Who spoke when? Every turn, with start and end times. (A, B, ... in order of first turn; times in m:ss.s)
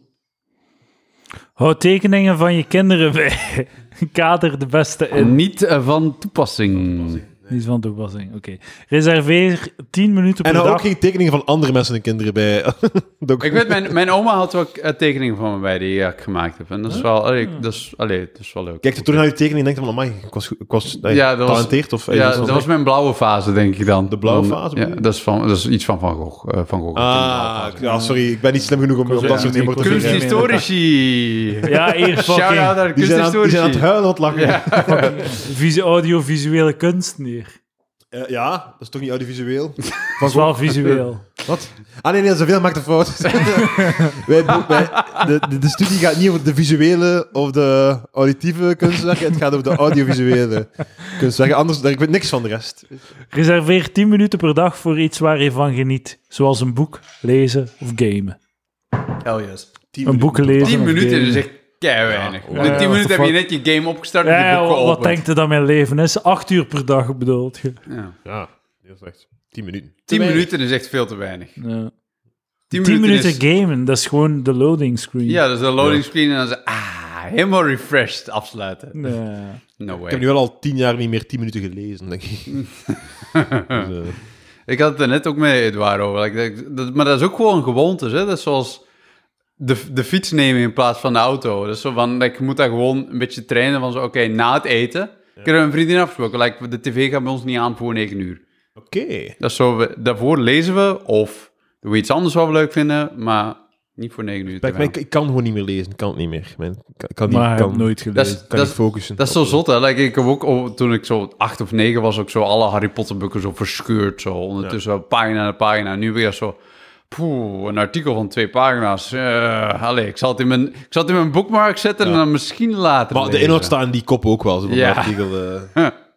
0:01.6-0:05.4 A
0:05.1-0:07.2 B
0:06.8-0:07.5 C
0:07.5-0:10.9 A
0:10.4-0:13.9 C
0:13.4-0:19.2 B
0:18.8-0:22.6 C
0:21.1-0:27.8 B
0:22.4-0:22.6 A
0:24.1-0:25.0 C
0:26.9-0:30.6 C
0:27.8-0:28.3 A
0:29.0-0:30.6 A
0:29.2-0:35.3 B
0:31.6-0:32.8 A
0:32.9-0:35.4 C
0:34.9-0:37.5 A
0:38.1-0:52.9 C
0:40.2-0:41.2 A
0:43.8-0:44.2 A
0:44.6-0:45.3 B
0:53.3-0:58.4 A
0:59.2-0:59.7 B
0:59.9-1:00.9 C
1:00.0-1:01.4 A
1:00.6-1:05.2 B
1:02.1-1:03.0 C
1:02.5-1:03.4 A
1:04.2-1:07.8 A
1:07.9-1:08.2 B
1:08.2-1:10.5 C
1:10.1-1:11.6 B
1:11.6-1:11.9 A
1:12.7-1:13.4 B
1:12.7-1:15.4 A
1:15.3-1:19.0 B
1:18.9-1:19.6 A
1:19.8-1:20.2 B
1:20.0-1:22.6 C
1:22.5-1:23.9 B
1:23.7-1:24.2 C
1:24.7-1:28.8 B
1:29.6-1:38.4 B
1:38.8-1:39.4 C
1:39.4-1:44.9 B
1:44.5-1:47.9 C
1:47.3-1:48.4 A
1:48.1-1:56.6 B
1:48.5-1:49.6 C
1:57.1-2:03.7 B
2:03.1-2:05.7 C
2:04.7-2:05.2 B